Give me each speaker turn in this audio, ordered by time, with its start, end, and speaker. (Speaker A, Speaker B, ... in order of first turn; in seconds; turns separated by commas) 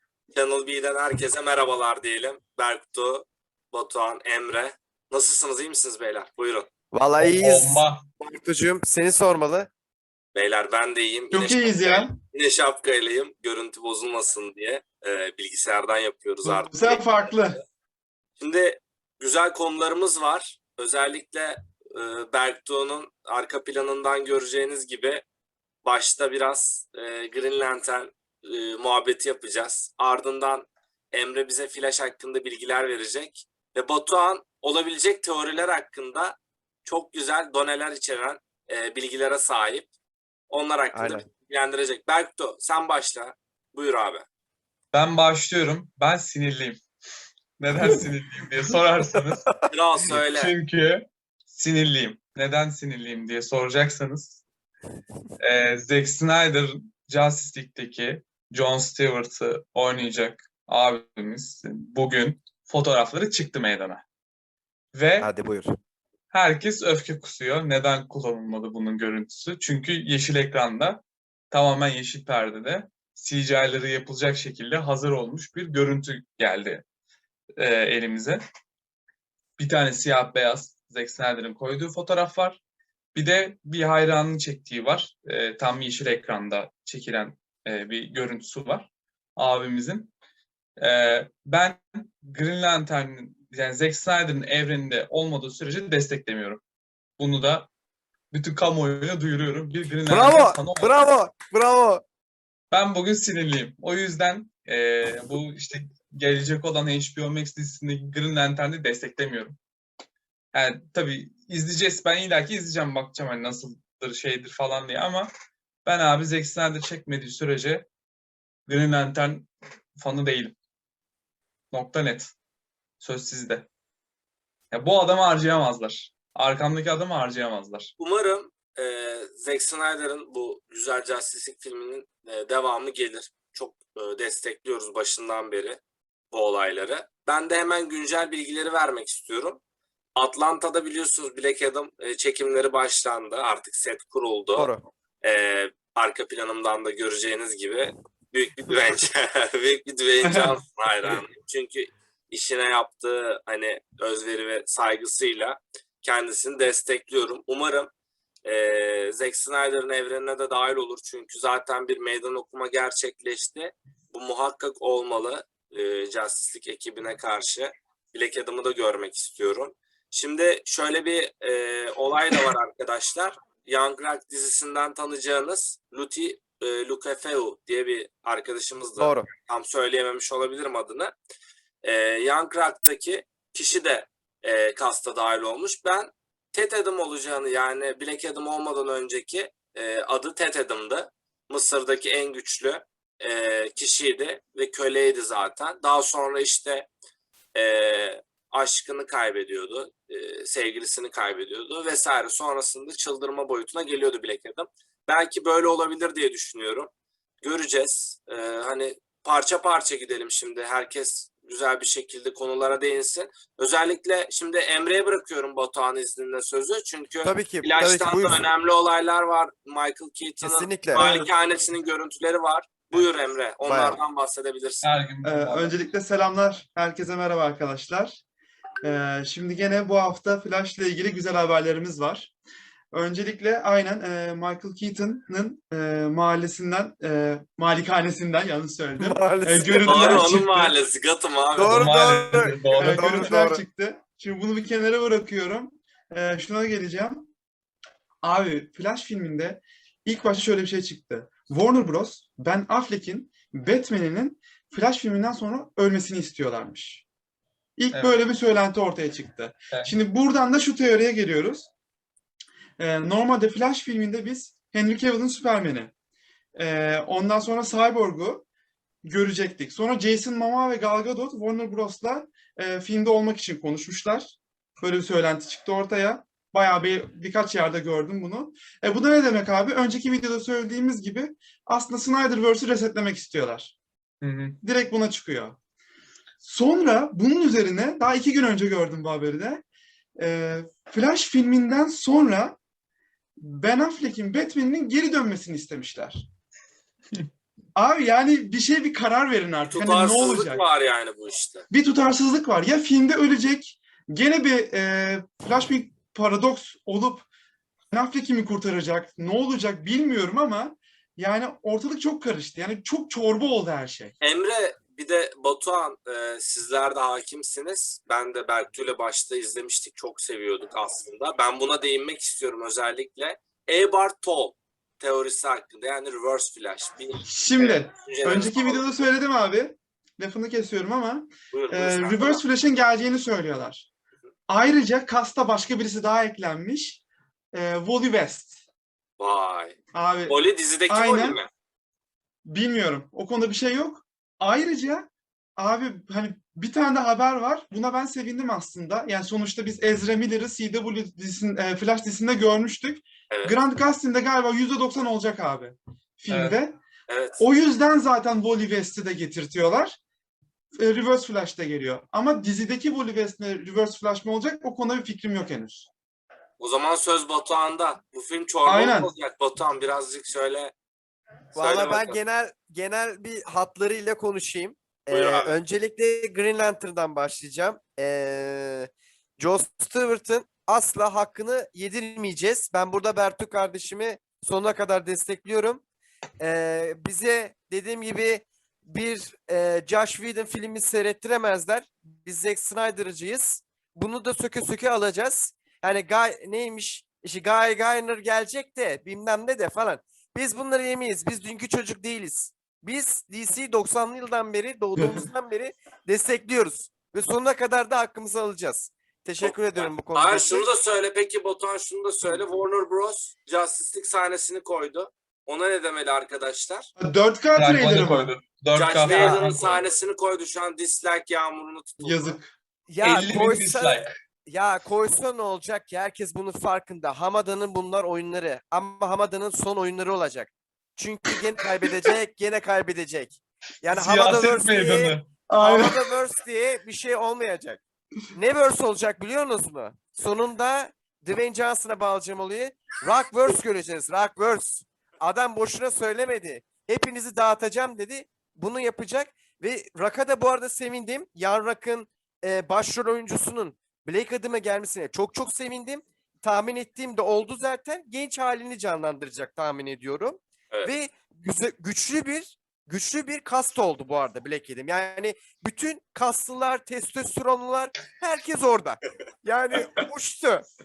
Speaker A: 0.3-6.7, Speaker B: 6.9-9.7, Speaker C: 7.2-8.0, Speaker A: 10.3-17.3, Speaker D: 11.3-12.1, Speaker D: 16.4-17.6, Speaker A: 18.4-25.2, Speaker A: 25.8-39.9, Speaker A: 40.5-44.2, Speaker B: 40.9-41.2, Speaker C: 44.9-46.8, Speaker C: 47.6-49.5, Speaker A: 49.7-50.5, Speaker C: 50.2-54.4, Speaker C: 55.4-64.0, Speaker C: 64.9-65.3, Speaker B: 65.2-65.7, Speaker C: 66.3-76.8, Speaker C: 77.6-78.4, Speaker C: 79.6-82.6, Speaker C: 83.1-90.1, Speaker C: 90.8-96.6, Speaker C: 97.2-97.7, Speaker C: 98.3-101.0, Speaker B: 100.0-102.0, Speaker C: 102.7-109.6, Speaker C: 110.5-115.3, Speaker C: 115.8-117.9, Speaker C: 118.7-120.5, Speaker C: 121.7-122.3, Speaker C: 123.0-123.7, Speaker C: 124.7-127.9, Speaker A: 128.0-135.8, Speaker A: 136.3-139.6, Speaker A: 140.1-144.7, Speaker B: 144.5-144.8, Speaker A: 145.2-157.9, Speaker D: 150.2-150.5, Speaker A: 158.4-181.1, Speaker B: 179.0-179.3, Speaker A: 181.8-196.9, Speaker A: 197.5-206.9, Speaker A: 207.4-224.8, Speaker B: 217.2-218.5, Speaker B: 220.4-221.2, Speaker D: 220.9-221.3, Speaker B: 223.6-224.0, Speaker C: 224.8-225.8, Speaker D: 225.2-228.2, Speaker D: 228.8-232.3, Speaker D: 232.9-240.8, Speaker B: 239.0-240.2, Speaker A: 239.8-241.9, Speaker B: 241.5-243.6, Speaker C: 241.6-243.3, Speaker D: 242.7-247.3, Speaker D: 248.2-257.0, Speaker D: 257.8-261.7, Speaker C: 257.9-258.2, Speaker D: 262.8-265.9, Speaker D: 266.6-268.4, Speaker D: 269.0-283.7, Speaker C: 284.2-284.6, Speaker D: 284.6-285.6, Speaker D: 286.4-289.6, Speaker D: 290.2-292.6, Speaker D: 293.4-296.3, Speaker D: 297.8-300.6, Speaker A: 299.7-301.6, Speaker D: 301.7-307.2, Speaker D: 307.9-314.1, Speaker A: 314.2-329.1, Speaker D: 327.2-333.9, Speaker A: 331.5-332.4, Speaker D: 334.5-337.0, Speaker D: 337.5-338.6, Speaker A: 339.2-339.8, Speaker D: 339.9-341.4, Speaker A: 340.3-341.5, Speaker D: 342.4-356.8, Speaker A: 353.3-353.6, Speaker C: 356.3-356.6, Speaker A: 357.1-357.4, Speaker D: 357.4-360.0, Speaker D: 360.8-365.9, Speaker A: 366.6-370.7, Speaker D: 368.6-369.1, Speaker B: 371.5-385.8, Speaker A: 371.6-372.2, Speaker A: 375.1-375.6, Speaker B: 386.4-410.7, Speaker D: 405.0-405.2, Speaker A: 409.4-416.9, Speaker D: 417.0-418.3, Speaker C: 417.6-419.8, Speaker A: 418.7-422.3, Speaker B: 419.1-419.4, Speaker D: 422.0-422.5, Speaker B: 422.9-437.8, Speaker C: 423.0-424.1, Speaker C: 433.9-435.3, Speaker D: 435.5-436.0, Speaker B: 438.3-470.6